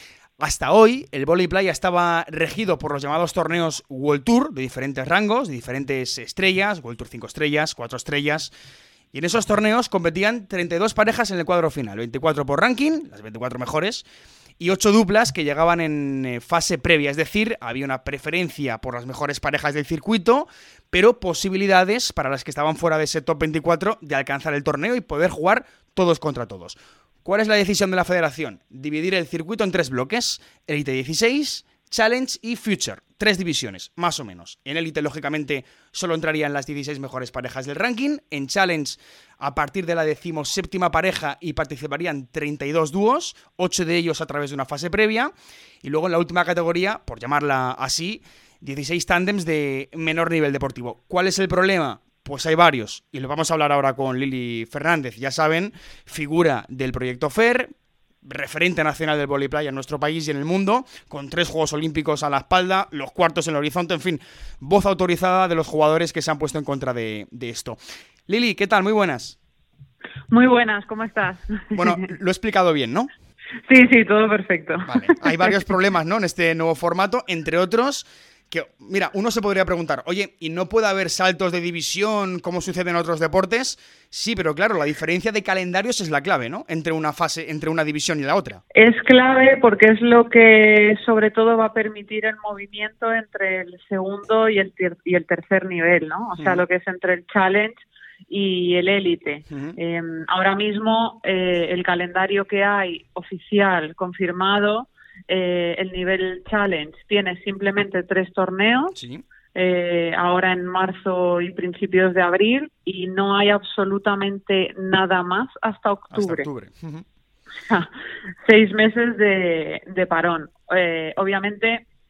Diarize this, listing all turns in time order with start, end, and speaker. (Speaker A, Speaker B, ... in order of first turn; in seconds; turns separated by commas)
Speaker A: 0.4-8.5, Speaker A: 9.1-14.1, Speaker A: 14.6-45.3, Speaker A: 45.8-69.4, Speaker B: 70.3-72.1, Speaker A: 71.7-73.1, Speaker B: 73.7-75.6, Speaker A: 74.8-88.6, Speaker B: 88.7-97.8, Speaker A: 96.4-96.6, Speaker B: 98.3-109.0, Speaker A: 99.5-99.8, Speaker A: 108.9-109.2, Speaker B: 109.5-116.5, Speaker A: 116.1-117.0, Speaker B: 118.4-121.8